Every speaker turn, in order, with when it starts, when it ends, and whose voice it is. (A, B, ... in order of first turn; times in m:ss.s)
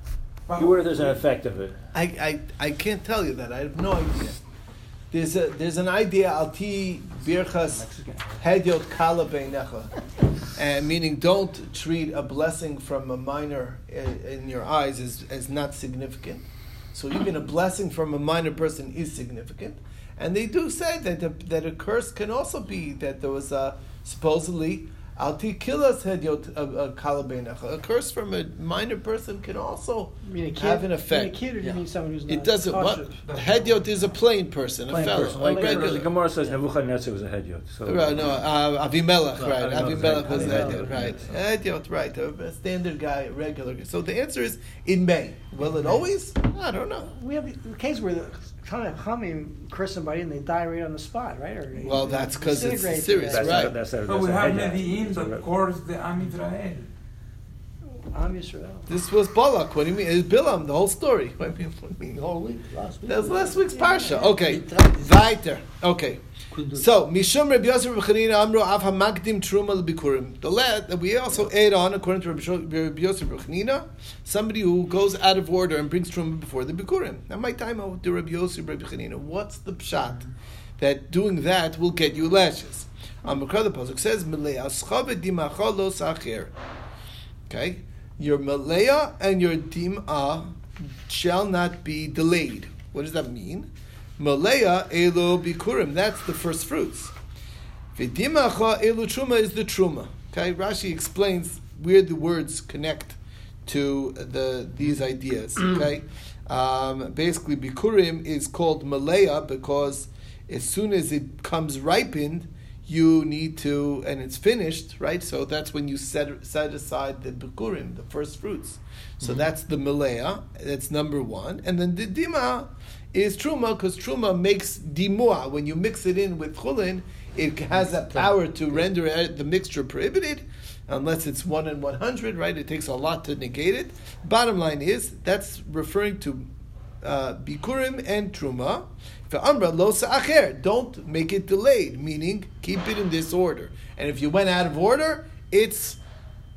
0:00.5-0:01.2 A
0:00.6-0:01.7 B
0:01.9-0:04.4 C
0:05.1-0:09.9 C
0:07.7-0:08.4 D
0:10.5-0:31.4 C
0:30.2-0:33.2 D
0:32.3-0:36.1 C
0:33.2-0:33.8 A
0:34.9-0:38.3 B
0:35.1-0:36.6 D
0:37.8-0:47.1 C
0:39.4-0:41.1 E
0:39.5-0:41.2 B
0:47.0-0:53.7 D
0:51.8-0:53.8 C
0:53.2-0:55.4 B
0:54.0-0:56.9 A
0:58.1-0:58.9 D
0:58.9-1:02.2 C
1:02.1-1:05.2 E
1:03.0-1:06.2 C
1:06.5-1:06.9 E
1:06.7-1:20.3 C
1:20.8-1:26.5 C
1:27.5-1:37.1 C
1:37.9-2:16.4 C
2:07.8-2:08.8 E
2:17.0-2:26.0 C